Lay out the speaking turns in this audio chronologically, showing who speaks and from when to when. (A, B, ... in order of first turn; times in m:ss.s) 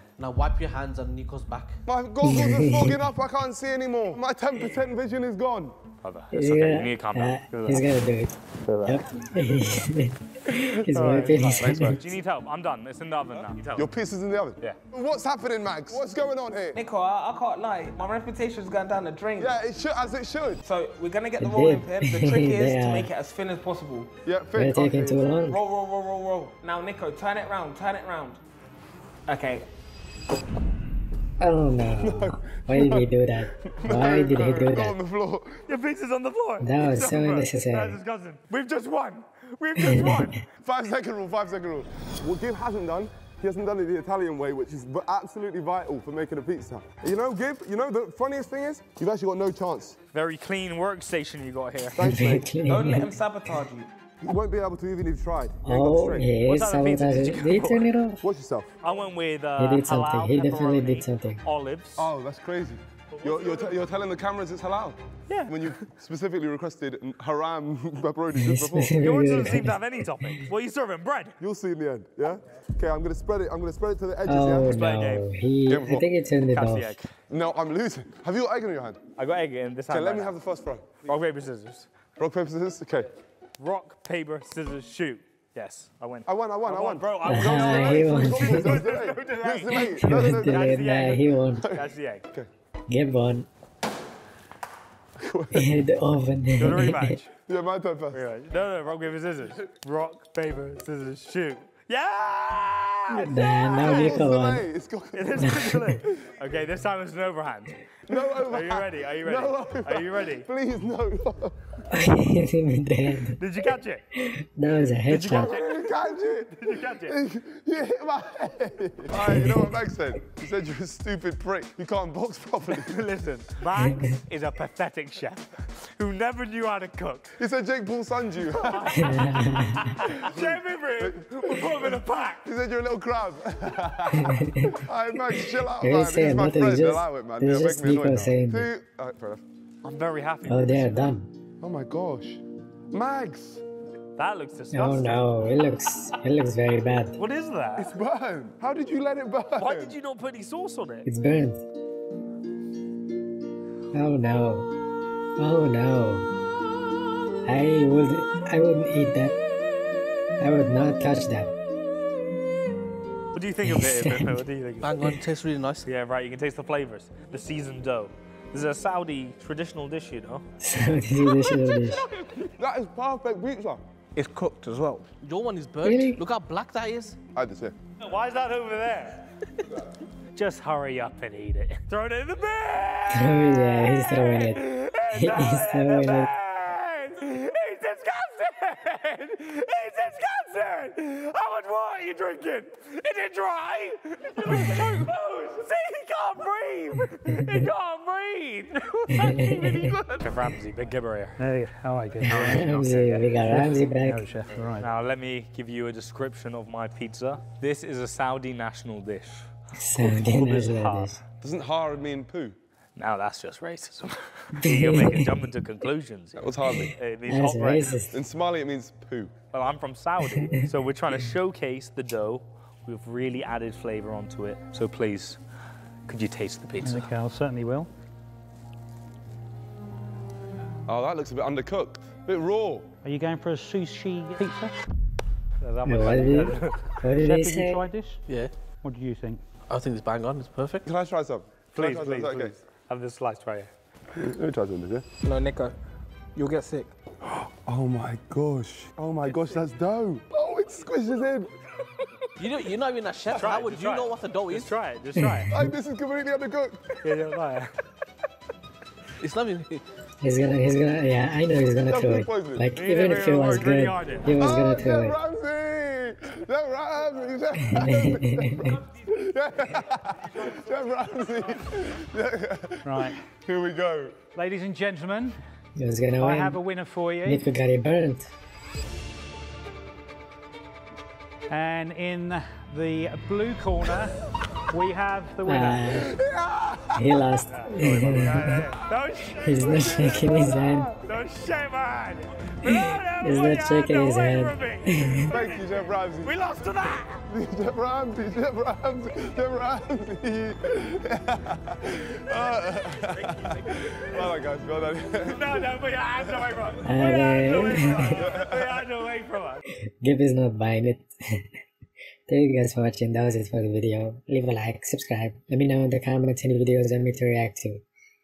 0:00.2-0:01.8 A
0:01.9-0:05.8 B
0:02.2-0:03.0 C
0:06.0-0:07.8 D
0:06.3-0:12.0 C
0:08.6-0:09.0 D
0:10.5-0:13.9 D
0:11.6-0:12.1 B
0:13.4-0:16.8 B
0:16.8-0:19.6 E
0:19.4-0:20.6 B
0:20.6-0:24.1 E
0:21.4-0:23.1 C
0:24.2-0:25.3 B
0:24.6-0:25.6 C
0:25.5-0:28.4 E
0:29.3-0:29.7 E
0:31.4-0:35.0 C
0:32.0-0:35.6 B
0:35.7-0:40.4 D
0:36.6-0:38.0 C
0:40.0-0:40.2 C
0:40.6-0:50.0 B
0:50.1-0:52.2 D
0:52.0-0:52.5 B
0:52.0-0:53.1 C
0:52.7-0:53.9 E
0:54.2-0:56.3 B
0:55.7-0:58.2 C
0:56.0-0:57.9 D
0:58.2-0:58.7 B
0:58.8-1:02.1 D
0:59.6-1:01.4 C
1:02.0-1:09.3 B
1:03.1-1:03.7 D
1:05.3-1:05.8 D
1:08.4-1:09.8 C
1:09.0-1:11.4 D
1:11.4-1:14.7 B
1:14.3-1:17.0 C
1:14.7-1:15.3 D
1:15.7-1:16.1 B
1:16.5-1:17.1 D
1:17.3-1:19.0 B
1:19.2-1:20.4 D
1:19.9-1:21.0 B
1:21.0-1:21.9 D
1:22.2-1:23.1 B
1:23.6-1:32.2 D
1:26.3-1:30.7 B
1:27.3-1:28.8 C
1:29.8-1:31.7 C
1:31.6-1:32.5 B
1:32.9-1:33.5 C
1:35.2-1:35.8 B
1:35.5-1:37.2 C
1:36.6-1:37.3 D
1:37.5-1:38.2 B
1:38.1-1:44.2 D
1:43.2-1:44.6 C
1:43.8-1:46.3 B
1:45.1-1:50.5 D
1:48.1-1:51.6 B
1:51.9-1:53.4 C
1:53.4-1:54.0 D
1:54.2-1:55.6 C
1:55.1-1:55.9 D
1:55.3-2:03.0 B
1:56.6-1:57.2 D
1:59.3-1:59.6 C
2:02.7-2:07.4 D
2:07.4-2:09.0 B
2:08.5-2:12.4 D
2:09.0-2:09.9 C
2:10.0-2:19.4 B
2:14.2-2:14.8 C
2:15.8-2:18.7 C
2:19.8-2:21.2 D
2:20.5-2:21.3 C
2:21.6-2:23.6 B
2:24.2-2:25.2 D
2:24.7-2:27.2 C
2:27.2-2:28.0 D
2:27.8-2:30.0 B
2:29.6-2:31.1 D
2:31.1-2:31.6 C
2:33.9-2:34.7 C
2:35.4-2:36.3 C
2:37.5-2:39.4 C
2:40.4-2:41.5 C
2:43.3-2:45.0 D
2:43.7-2:44.3 C
2:44.8-2:45.9 A
2:45.9-2:50.4 D
2:50.6-2:52.0 C
2:52.4-2:53.8 B
2:54.2-2:55.1 E
2:55.2-2:57.2 A
2:55.8-2:56.2 C
2:57.3-2:57.8 B
2:58.0-2:59.2 D
3:00.3-3:19.4 D
3:03.1-3:06.3 C
3:19.1-3:20.0 C
3:20.2-3:21.4 D
3:21.4-3:22.8 F
3:22.2-3:23.3 D
3:22.2-3:24.2 C
3:23.4-3:24.9 F
3:24.8-3:31.2 D
3:29.8-3:31.2 C
3:31.4-3:32.6 B
3:33.0-3:37.9 D
3:34.6-3:35.3 C
3:36.4-3:36.9 B
3:37.3-3:38.1 C
3:38.1-3:39.3 B
3:39.5-3:45.4 D
3:40.3-3:40.6 C
3:46.1-3:47.1 D
3:46.8-3:47.9 F
3:50.9-3:52.9 B
3:53.0-3:54.8 F
3:55.6-3:57.0 D
3:55.9-3:57.8 C
3:57.2-3:58.2 F
3:58.8-3:59.4 F
3:59.7-4:00.9 A
4:00.8-4:02.6 B
4:01.7-4:03.7 D
4:04.1-4:05.1 B
4:05.2-4:05.8 E
4:06.4-4:06.9 E
4:07.2-4:11.5 B
4:09.3-4:09.6 D
4:12.4-4:14.8 A
4:13.3-4:15.5 D
4:15.2-4:15.7 C
4:15.5-4:17.0 B
4:17.0-4:17.7 D
4:19.2-4:19.8 A
4:20.2-4:25.2 C
4:21.9-4:22.7 B
4:22.8-4:24.3 D
4:24.4-4:34.2 B
4:27.7-4:28.8 C
4:32.8-4:33.2 F
4:34.4-4:35.4 F
4:35.8-4:36.6 C
4:36.2-4:37.4 F
4:37.2-4:38.3 C
4:41.5-4:44.2 F
4:44.7-4:45.9 F
4:45.5-4:46.1 C
4:45.9-4:47.2 B
4:47.0-4:48.7 C
4:47.5-4:57.2 D
4:49.4-4:50.9 C
4:49.7-4:50.9 B
4:52.7-4:55.2 C
4:55.3-4:56.3 B
4:57.3-5:05.6 B
5:02.9-5:04.3 D
5:05.2-5:09.6 D
5:06.3-5:06.6 B
5:06.8-5:08.2 C
5:08.2-5:08.8 B
5:10.0-5:11.1 C
5:12.3-5:17.8 C